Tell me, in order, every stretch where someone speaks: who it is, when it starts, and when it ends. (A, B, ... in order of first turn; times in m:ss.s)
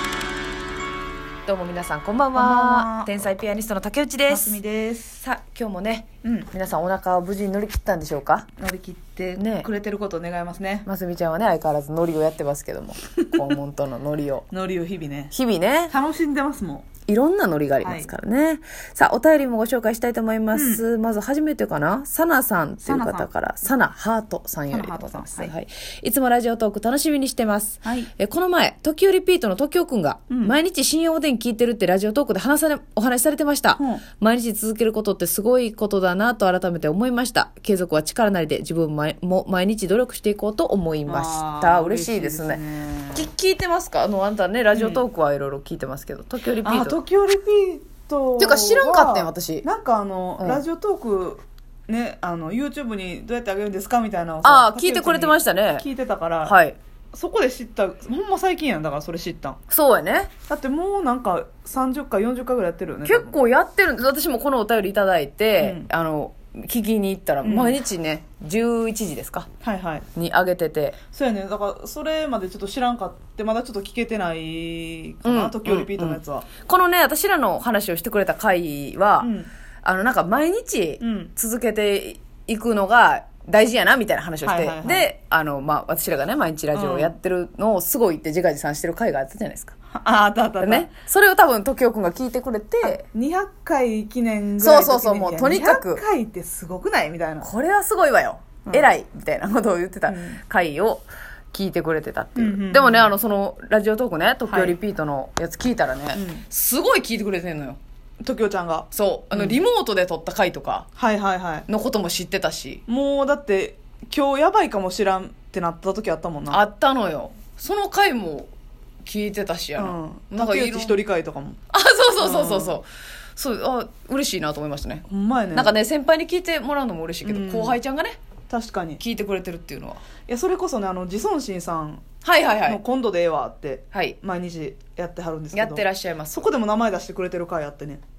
0:01.4-0:04.6 A
0:02.3-0:03.1 B
0:04.3-0:05.2 B
0:05.2-0:08.5 A
0:06.2-0:06.5 B
0:08.6-0:10.9 B
0:09.4-0:09.7 A
0:10.8-0:14.5 A
0:14.5-0:15.3 B
0:15.3-0:15.9 A
0:15.9-0:16.9 B
0:17.1-0:42.6 A
0:17.8-0:18.1 B
0:20.5-0:20.8 B
0:22.8-0:23.3 B
0:24.7-0:25.5 B
0:27.8-0:28.1 B
0:30.3-0:30.6 B
0:33.8-0:34.0 B
0:41.0-0:43.3 B
0:43.1-0:47.0 A
0:44.7-0:45.0 B
0:46.6-0:56.6 B
0:48.4-0:49.6 A
0:54.4-0:55.9 A
0:56.4-0:56.8 A
0:57.1-0:59.6 B
0:59.7-1:00.3 A
1:00.5-1:03.4 B
1:03.0-1:09.5 A
1:05.6-1:05.9 B
1:07.4-1:07.8 B
1:09.6-1:10.1 B
1:10.2-1:11.0 A
1:11.1-1:16.5 B
1:15.2-1:19.3 A
1:19.2-1:19.5 B
1:19.8-1:29.7 A
1:21.0-1:21.3 B
1:24.4-1:25.1 B
1:26.7-1:27.2 B
1:29.9-1:30.9 B
1:30.6-1:33.0 A
1:32.8-1:37.5 B
1:34.6-1:36.0 A
1:37.4-1:47.8 A
1:38.7-1:38.9 B
1:40.1-1:40.4 B
1:42.4-1:43.1 B
1:44.5-1:44.8 B
1:46.1-1:46.4 B
1:48.2-1:49.6 B
1:48.9-1:50.9 A
1:51.0-1:51.7 B
1:51.7-1:52.8 A
1:52.9-1:56.6 B
1:56.5-1:58.5 A
1:59.0-2:01.0 A
1:59.8-2:01.6 B
2:01.7-2:08.2 A
2:02.2-2:02.8 B
2:05.1-2:05.7 B
2:07.2-2:07.8 B
2:08.5-2:09.0 B
2:09.0-2:10.0 A
2:10.3-2:12.0 B
2:12.2-2:12.8 A
2:12.6-2:18.0 B
2:13.9-2:14.2 A
2:15.5-2:16.5 A